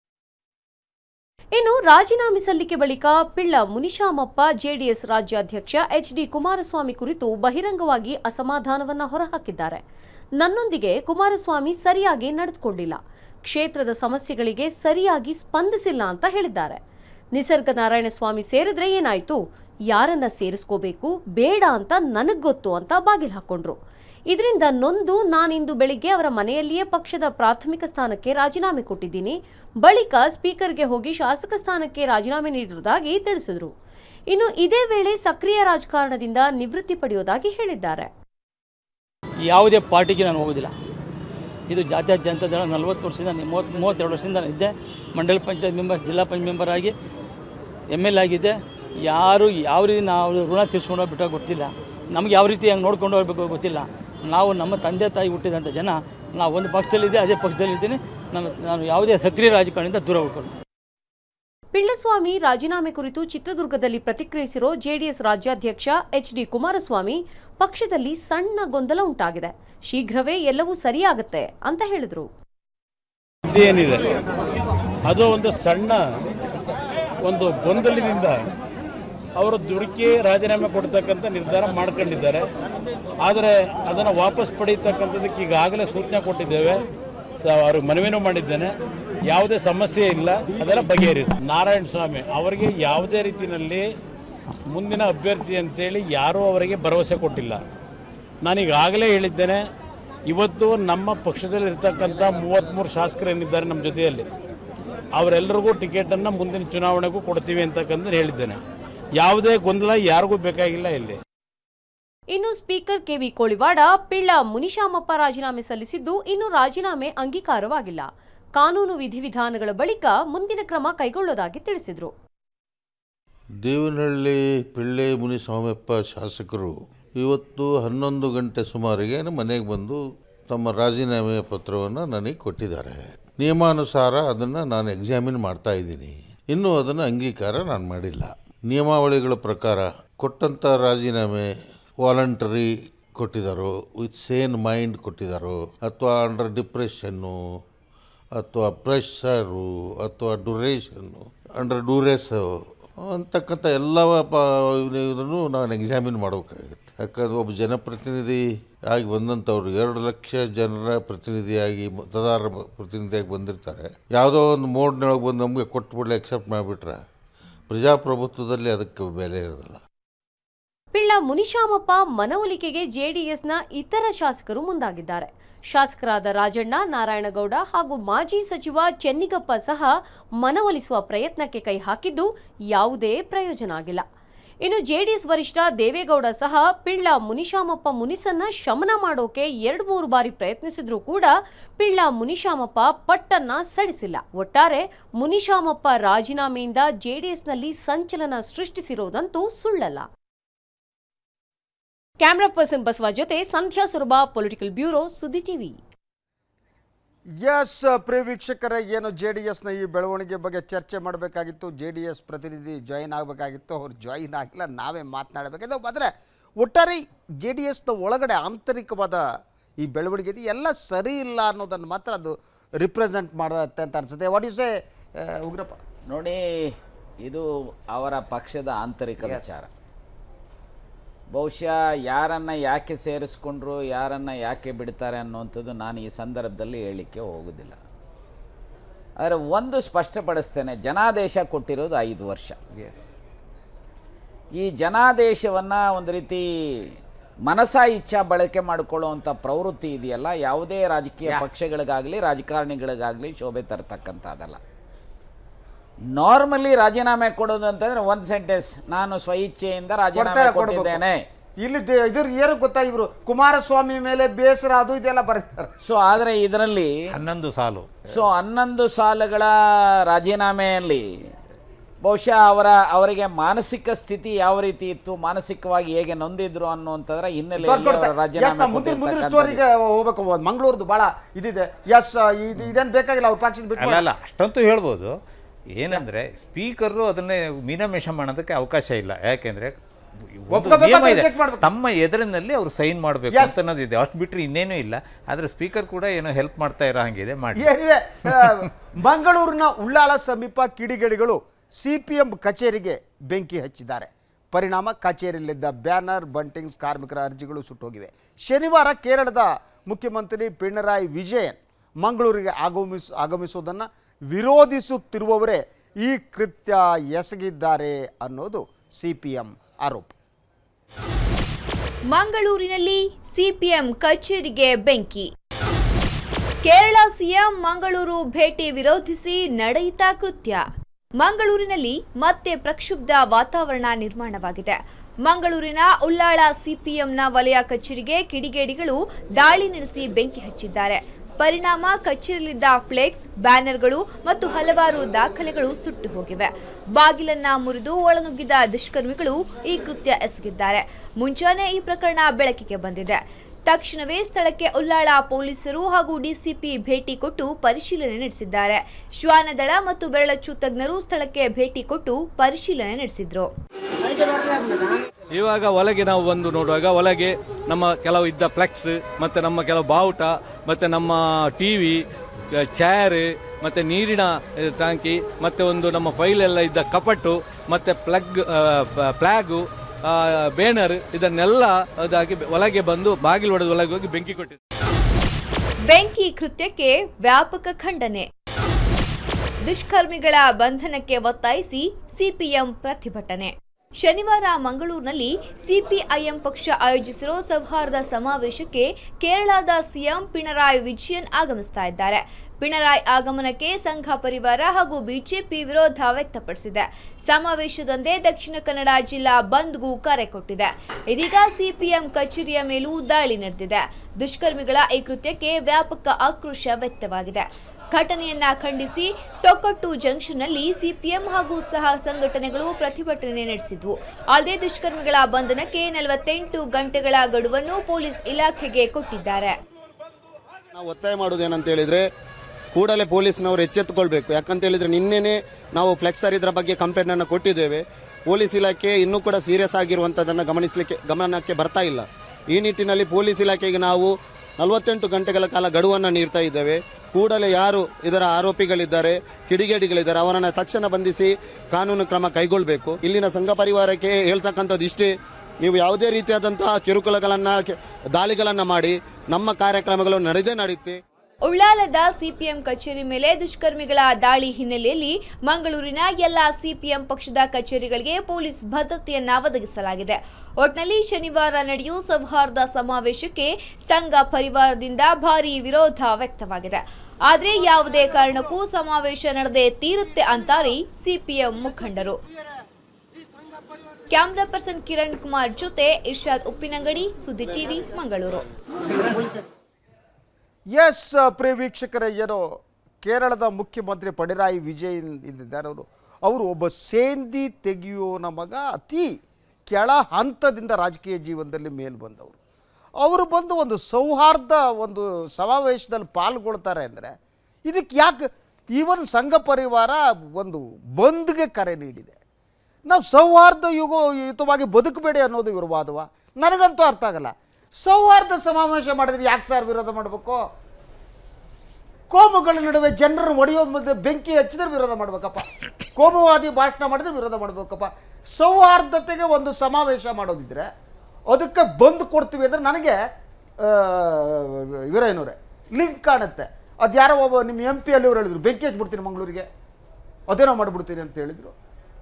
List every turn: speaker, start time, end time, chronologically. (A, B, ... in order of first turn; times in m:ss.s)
0:01.5-0:09.8 A
0:10.4-0:13.0 A
0:13.5-0:16.8 A
0:17.3-0:23.8 A
0:24.3-0:33.7 A
0:34.3-0:38.1 A
0:39.5-0:40.7 B
0:41.7-0:46.9 B
0:47.9-1:00.5 B
1:01.7-1:12.3 A
1:13.4-1:14.1 C
1:15.1-1:16.2 C
1:17.2-1:18.4 C
1:19.4-1:22.4 C
1:23.2-1:26.8 C
1:27.4-1:28.7 C
1:29.3-1:33.8 C
1:34.7-1:37.6 C
1:38.4-1:39.6 C
1:40.3-1:44.2 C
1:45.2-1:48.6 C
1:49.2-1:51.2 C
1:52.3-2:02.1 A
2:03.6-2:21.5 D
2:22.0-2:27.4 D
2:28.4-2:47.0 D
2:47.7-2:49.8 D
2:50.9-3:04.0 A
3:04.6-3:20.1 A
3:22.2-3:25.8 A
3:27.4-3:39.2 E
3:39.8-3:45.8 E
3:46.1-3:49.7 F
3:49.2-3:49.5 E
3:51.3-3:57.8 F
3:59.2-4:02.6 F
4:02.7-4:03.0 E
4:04.6-4:06.9 F
4:07.4-4:14.6 F
4:16.1-4:21.2 F
4:20.1-4:21.0 E
4:21.6-4:25.7 E
4:25.8-4:26.9 F
4:27.1-4:27.9 G
4:28.1-4:29.5 F
4:30.1-4:31.0 F
4:32.0-4:39.6 F
4:37.6-4:44.0 E
4:43.8-4:45.1 G
4:45.7-4:49.8 G
4:50.3-4:57.7 G
4:50.5-4:51.7 E
4:53.3-4:53.6 E
4:57.5-5:20.1 E
5:22.1-5:25.3 H
5:26.6-5:30.6 H
5:31.2-6:03.5 H
6:05.3-6:12.0 I
6:12.6-6:24.6 I
6:25.9-6:28.3 H
6:29.6-7:09.6 H
7:10.7-7:12.0 J
7:12.7-7:35.1 J
7:35.6-7:41.0 J
7:41.4-8:02.2 H
8:04.1-8:08.4 H
8:10.7-8:19.2 E
8:19.7-8:22.4 E
8:23.0-8:27.1 E
8:27.6-8:32.2 E
8:32.9-8:40.4 E
8:42.1-8:50.7 E
8:51.3-8:52.9 E
8:53.6-8:59.5 E
9:00.3-9:01.5 E